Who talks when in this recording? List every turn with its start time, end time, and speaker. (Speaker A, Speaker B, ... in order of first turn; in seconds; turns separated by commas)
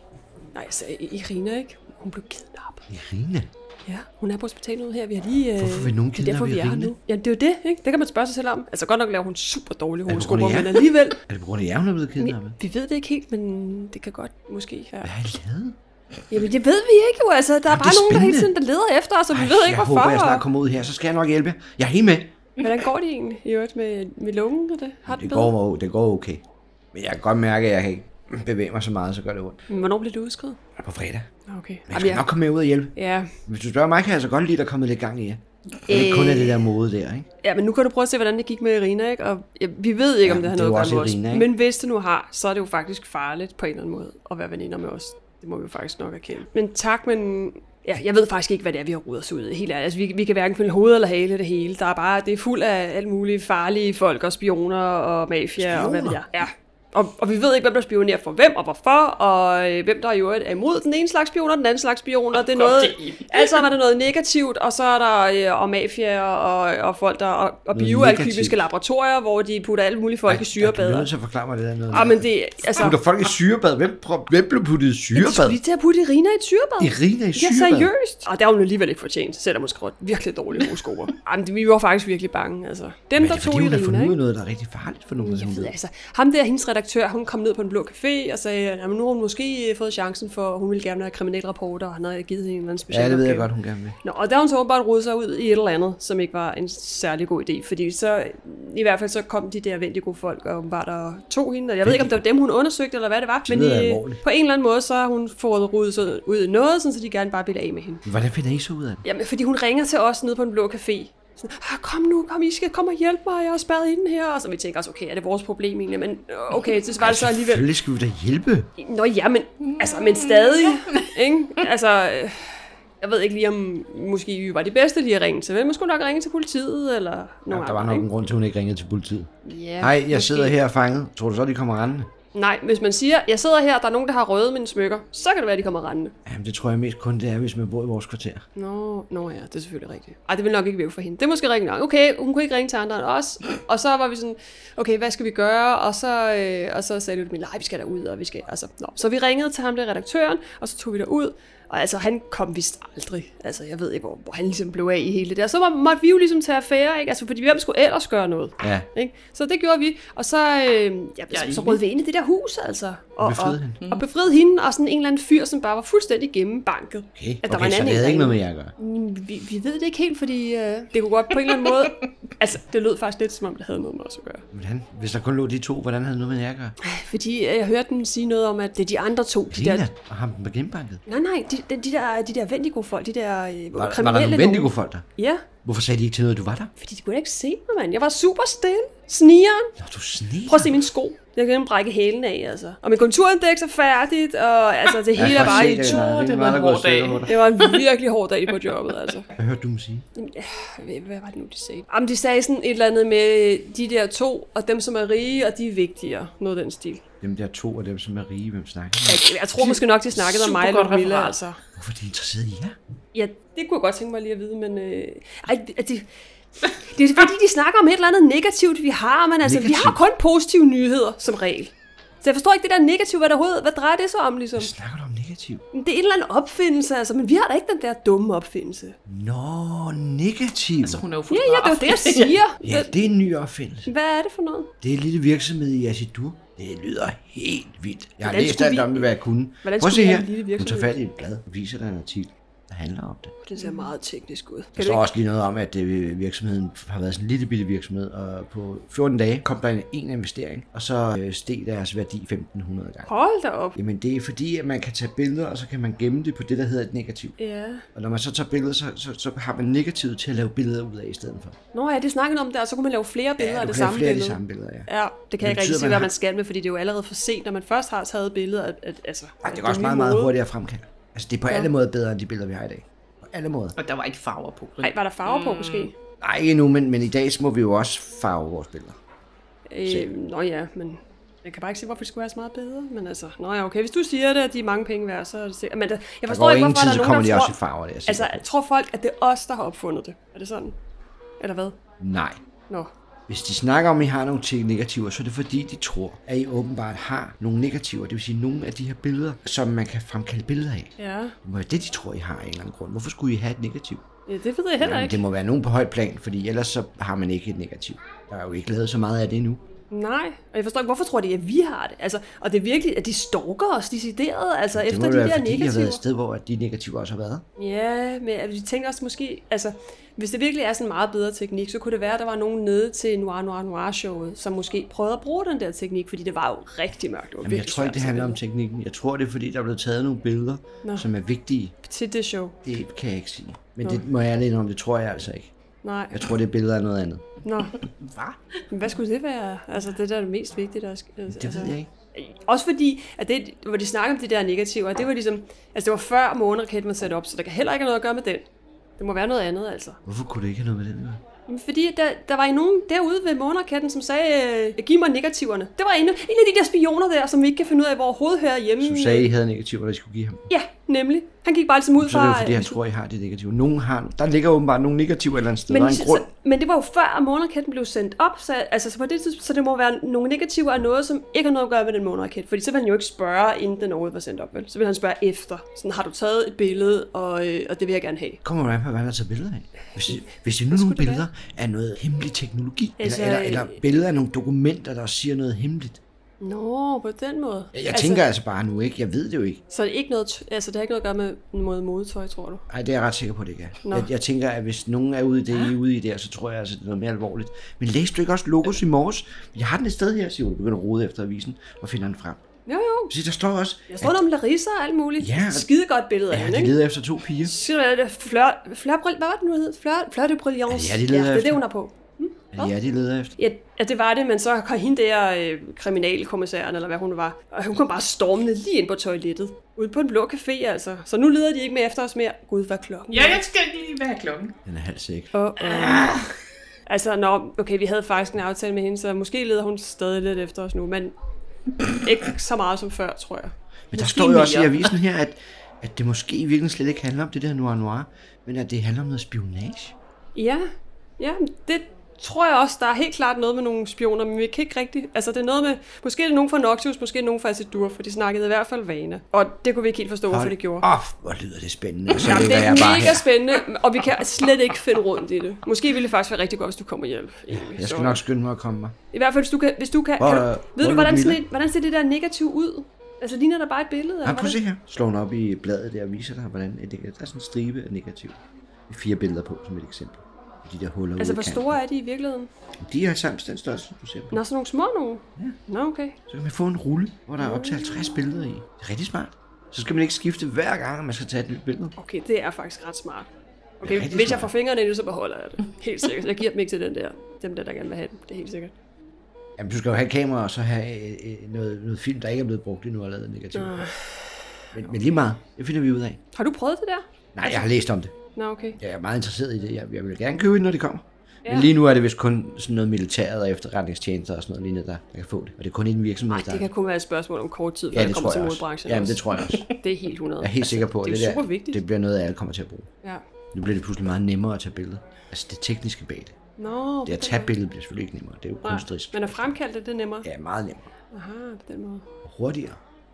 Speaker A: 0.5-2.9, Speaker B: 2.9-3.5, Speaker A: 3.9-11.2, Speaker B: 5.6-6.9, Speaker B: 10.1-12.6, Speaker A: 12.2-15.1, Speaker B: 15.0-15.8, Speaker A: 16.3-20.4, Speaker B: 17.7-18.5, Speaker B: 19.3-22.4, Speaker A: 22.6-25.5, Speaker B: 25.1-26.4, Speaker B: 26.9-29.6, Speaker A: 29.7-30.6, Speaker B: 30.8-31.3, Speaker A: 31.5-32.3, Speaker B: 31.9-32.9, Speaker A: 33.0-33.4, Speaker B: 33.5-37.3, Speaker A: 35.9-36.7, Speaker A: 37.4-71.1, Speaker B: 40.2-41.5, Speaker B: 55.6-56.2, Speaker C: 62.3-63.7, Speaker B: 67.7-68.6, Speaker B: 70.3-75.6, Speaker A: 71.9-73.0, Speaker A: 75.2-84.2, Speaker B: 76.8-77.9, Speaker B: 83.2-85.7, Speaker A: 85.2-93.5, Speaker B: 92.9-94.0, Speaker A: 94.0-108.0, Speaker B: 101.8-102.2, Speaker B: 103.5-104.2, Speaker B: 108.1-109.0, Speaker A: 109.0-117.7, Speaker B: 117.0-118.7, Speaker A: 118.8-128.1, Speaker C: 119.6-121.7, Speaker B: 127.5-132.1, Speaker A: 129.4-130.6, Speaker A: 132.3-136.1, Speaker B: 136.3-138.5, Speaker A: 138.6-174.4, Speaker B: 158.6-158.9, Speaker C: 161.3-161.8, Speaker B: 163.2-163.8, Speaker C: 163.8-164.1, Speaker B: 167.2-168.7, Speaker C: 171.4-172.1, Speaker B: 174.5-176.7, Speaker A: 176.8-179.9, Speaker B: 179.5-181.0, Speaker A: 181.1-185.4, Speaker B: 183.8-185.1, Speaker B: 185.6-186.7, Speaker A: 186.8-189.8, Speaker B: 189.8-190.7, Speaker A: 190.5-196.1, Speaker B: 195.2-197.3, Speaker C: 195.2-197.9, Speaker A: 197.3-199.3, Speaker C: 198.5-199.2, Speaker B: 199.4-200.1, Speaker A: 200.2-207.0, Speaker B: 207.2-209.3, Speaker A: 209.1-211.6, Speaker C: 209.6-211.4, Speaker B: 211.8-212.8, Speaker A: 213.1-216.1, Speaker A: 216.7-224.7, Speaker B: 219.4-220.0, Speaker B: 224.6-225.6, Speaker A: 225.7-229.0, Speaker B: 229.1-231.0, Speaker C: 230.8-232.4, Speaker A: 231.3-233.0, Speaker B: 232.6-233.9, Speaker A: 233.9-234.7, Speaker B: 234.8-243.4, Speaker A: 238.2-239.1, Speaker A: 239.6-240.9, Speaker A: 243.4-245.0, Speaker C: 243.6-243.9, Speaker B: 244.8-253.1, Speaker A: 253.1-253.8, Speaker B: 253.8-257.4, Speaker A: 257.4-257.9, Speaker B: 257.9-261.6, Speaker A: 261.7-270.3, Speaker B: 263.4-266.1, Speaker B: 269.4-273.8, Speaker C: 273.8-275.9, Speaker A: 274.8-275.9, Speaker B: 276.2-279.0, Speaker A: 279.7-287.6, Speaker B: 286.3-288.4, Speaker A: 288.1-290.8, Speaker A: 291.4-291.8, Speaker B: 292.0-292.4, Speaker B: 293.3-304.0, Speaker A: 301.0-301.4, Speaker A: 304.3-305.2, Speaker B: 304.8-309.6, Speaker A: 309.9-316.0, Speaker B: 314.8-317.4, Speaker A: 317.6-328.4, Speaker B: 327.4-331.7, Speaker A: 331.9-332.6, Speaker B: 332.6-335.5, Speaker A: 335.8-336.2, Speaker B: 336.1-337.2, Speaker A: 337.4-337.8, Speaker C: 337.8-338.6, Speaker A: 338.7-348.4, Speaker B: 341.3-341.9, Speaker A: 349.0-350.0, Speaker B: 350.1-351.2, Speaker A: 351.5-359.3, Speaker B: 358.8-360.5, Speaker A: 360.5-362.8, Speaker B: 362.0-366.3, Speaker A: 365.7-378.4, Speaker B: 378.4-386.0, Speaker A: 380.7-381.2, Speaker A: 383.0-383.8, Speaker A: 386.4-388.2, Speaker B: 387.7-389.6, Speaker A: 389.7-392.6, Speaker B: 392.7-402.4, Speaker C: 395.5-395.8, Speaker A: 402.7-403.1, Speaker B: 403.1-404.2, Speaker A: 403.9-406.8, Speaker B: 405.2-405.7, Speaker B: 406.3-407.5, Speaker A: 407.4-412.7, Speaker B: 410.7-411.6, Speaker B: 412.5-413.4, Speaker A: 413.4-423.4, Speaker C: 423.1-424.6, Speaker B: 424.7-425.3, Speaker A: 425.3-426.1, Speaker C: 425.6-426.3, Speaker A: 426.9-431.1, Speaker A: 431.8-433.5, Speaker B: 433.9-439.9, Speaker C: 433.9-435.0, Speaker A: 440.4-440.7, Speaker A: 441.2-450.9, Speaker B: 450.3-453.3, Speaker A: 452.2-458.2, Speaker B: 457.5-458.9, Speaker A: 459.1-464.6, Speaker B: 460.2-461.4, Speaker B: 464.2-471.8, Speaker A: 471.2-472.5, Speaker B: 472.8-474.4, Speaker A: 474.3-476.2, Speaker B: 476.3-481.9, Speaker A: 477.4-478.2, Speaker A: 482.0-483.3, Speaker B: 483.8-484.5, Speaker A: 483.8-488.7, Speaker B: 489.6-493.9, Speaker A: 493.5-494.6, Speaker B: 494.7-496.2, Speaker A: 496.3-497.6, Speaker B: 497.4-498.1, Speaker A: 498.4-498.8, Speaker B: 498.8-506.7, Speaker A: 501.4-501.7, Speaker A: 506.3-511.8, Speaker B: 507.9-509.7, Speaker C: 509.4-509.7, Speaker B: 510.4-512.9, Speaker B: 513.5-516.4, Speaker A: 516.6-517.5, Speaker B: 517.1-519.6, Speaker A: 518.6-520.3, Speaker B: 520.2-520.9, Speaker A: 521.1-522.1, Speaker B: 522.2-522.8